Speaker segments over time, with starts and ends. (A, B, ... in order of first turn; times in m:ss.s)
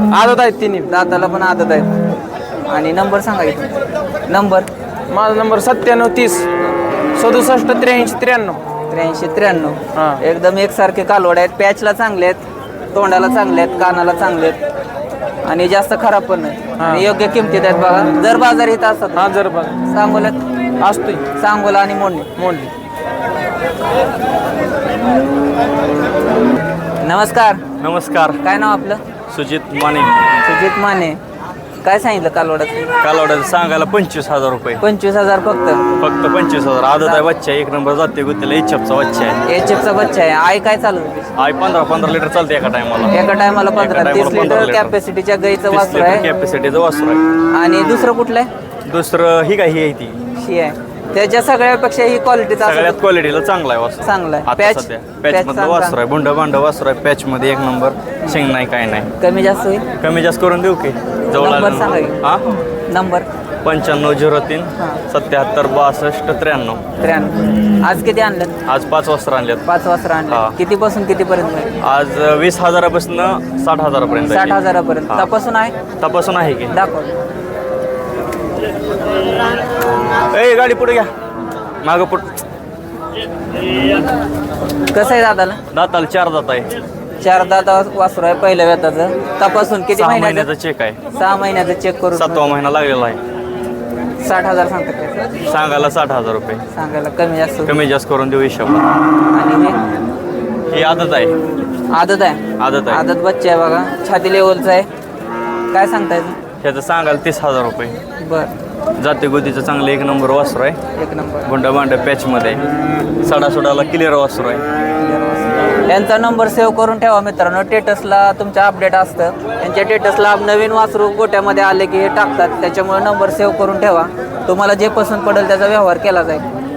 0:00.1-0:00.9 A
0:00.8-0:01.9 B
0:02.7-0:03.8 B
0:04.3-0:04.7 B
0:05.1-0:06.5 A
0:07.2-0:08.6 A
0:08.9-0:14.6 B
0:09.9-0:10.2 A
0:15.4-0:19.3 B
0:16.8-0:17.1 A
0:19.2-0:19.8 A
0:19.9-0:20.4 B
0:20.8-0:21.2 A
0:21.4-0:22.3 B
0:22.4-0:22.7 A
0:27.0-0:27.6 B
0:27.8-0:28.4 C
0:28.4-0:29.0 B
0:29.3-0:30.1 C
0:30.4-0:31.2 B
0:31.8-0:32.9 B
0:33.0-0:34.8 C
0:34.8-0:35.8 B
0:36.0-0:39.4 C
0:37.0-0:37.3 B
0:39.5-0:41.3 B
0:41.4-0:43.1 C
0:43.1-0:46.3 B
0:43.8-0:45.0 C
0:45.7-0:47.2 C
0:47.5-0:48.5 B
0:48.9-0:50.2 C
0:50.4-0:53.0 B
0:52.6-0:59.1 C
0:54.0-0:56.0 B
0:59.2-0:59.8 B
1:00.0-1:02.6 C
1:01.4-1:02.2 B
1:02.9-1:03.3 B
1:03.6-1:06.8 C
1:07.0-1:08.5 B
1:08.6-1:09.6 C
1:09.7-1:11.7 B
1:10.3-1:10.5 C
1:11.8-1:15.3 C
1:14.3-1:15.8 B
1:16.0-1:16.7 C
1:16.7-1:17.1 B
1:20.3-1:21.1 C
1:21.8-1:22.4 C
1:24.9-1:25.6 B
1:25.7-1:26.7 C
1:27.2-1:30.5 B
1:29.9-1:31.0 C
1:31.2-1:32.4 B
1:32.1-1:33.2 C
1:34.2-1:35.3 B
1:35.4-1:36.6 C
1:36.7-1:37.7 B
1:37.7-1:38.8 C
1:39.3-1:39.8 B
1:40.7-1:41.3 C
1:41.9-1:44.9 B
1:42.6-1:43.0 C
1:45.7-1:46.4 B
1:46.6-1:48.0 C
1:48.2-1:48.5 B
1:49.0-1:50.8 C
1:51.0-1:51.5 B
1:51.5-1:52.6 C
1:53.2-1:54.6 C
1:55.0-2:06.4 B